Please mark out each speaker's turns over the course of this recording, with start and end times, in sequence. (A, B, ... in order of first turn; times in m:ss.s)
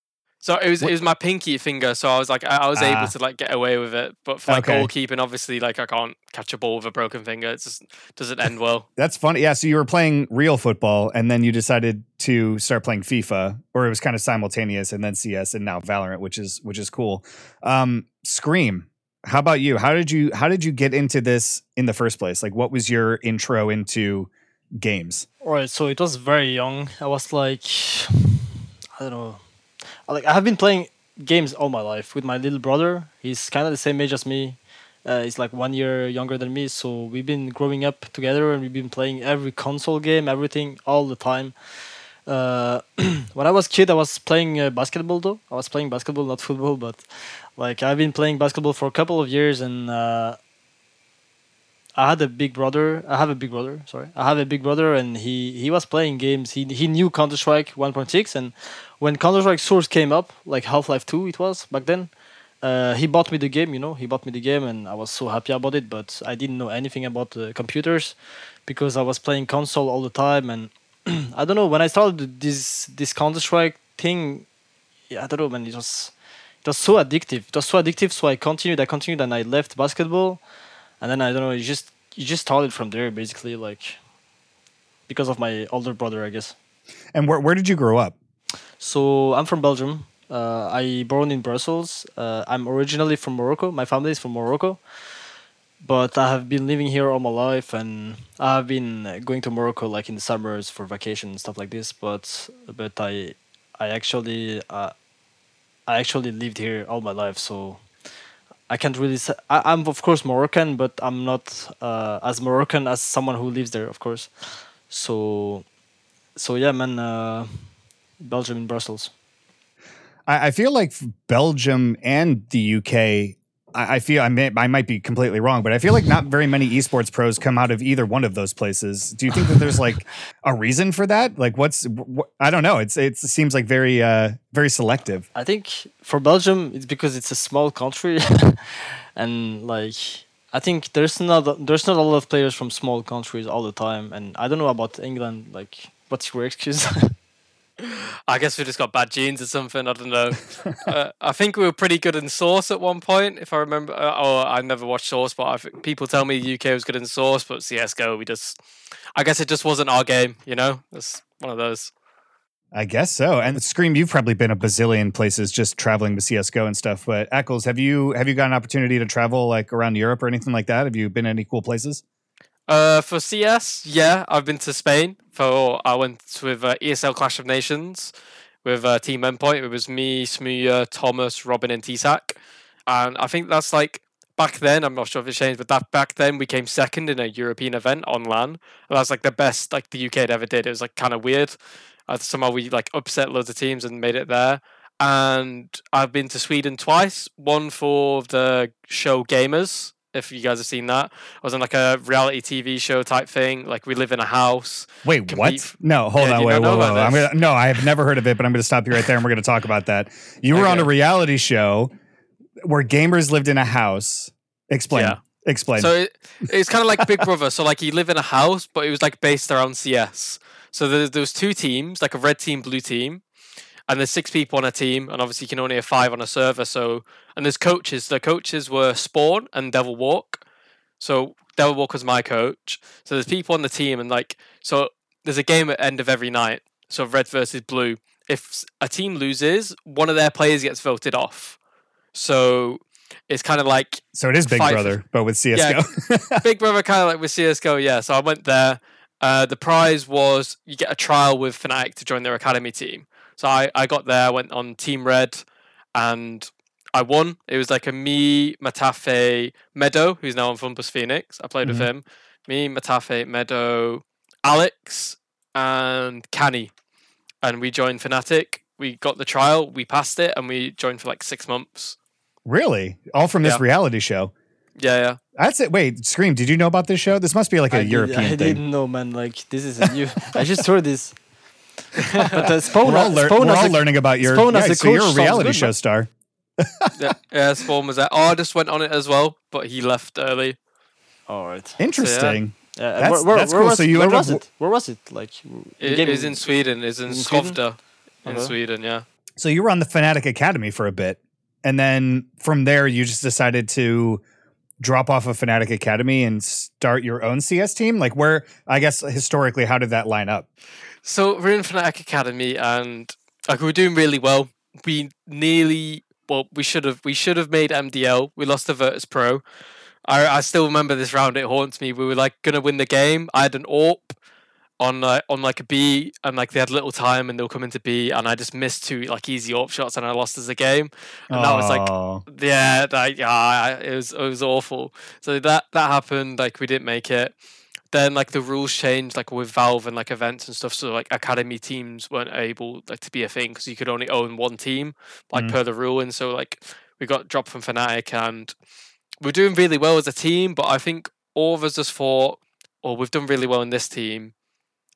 0:00.4-0:08.9 A
0:02.8-0:03.1 B
0:04.5-0:04.9 B
0:09.0-0:25.3 B
0:25.4-0:29.4 C
0:30.1-0:41.6 C
0:42.3-0:50.4 C
0:52.0-1:14.5 C
1:15.1-1:20.4 C
1:21.0-1:24.0 C
1:25.1-1:26.6 C
1:27.1-1:28.2 B
1:28.8-1:34.8 C
1:35.8-1:44.9 C
1:45.9-1:47.8 C
1:48.7-1:55.7 C
1:56.4-1:57.6 C
1:58.2-1:59.1 C
2:00.3-2:15.2 B
2:15.3-2:27.1 C
2:27.8-2:38.6 A
2:39.2-2:41.9 A
2:42.7-2:52.0 B
2:52.7-2:58.1 A
2:58.6-3:11.6 A
3:12.1-3:27.3 A
3:25.0-3:31.9 B
3:30.5-3:30.9 A
3:32.6-3:35.9 B
3:34.9-3:35.2 A
3:35.8-3:43.2 A
3:43.9-3:50.4 A
3:51.0-4:01.6 A
4:02.1-4:05.0 A
4:04.2-4:06.4 B
4:05.5-4:05.8 A
4:06.4-4:15.4 A
4:16.0-4:26.7 A
4:21.6-4:21.9 B
4:27.4-4:32.0 A
4:32.5-4:34.3 B
4:34.8-4:35.2 A
4:35.4-4:38.6 B
4:37.7-4:41.2 C
4:42.0-4:42.4 A
4:42.2-4:45.7 C
4:42.4-4:46.9 B
4:46.9-4:50.6 A
4:51.3-4:51.8 C
4:51.8-4:54.4 B
4:52.0-4:52.4 A
4:52.8-4:56.4 C
4:55.8-4:59.0 A
4:57.1-4:57.6 C
4:58.2-4:58.5 C
4:59.4-5:04.2 B
5:04.8-5:10.5 B
5:11.0-5:19.4 A
5:20.1-5:24.2 A
5:24.8-5:37.3 A
5:31.3-5:32.2 B
5:37.9-5:48.6 A
5:49.2-5:54.3 A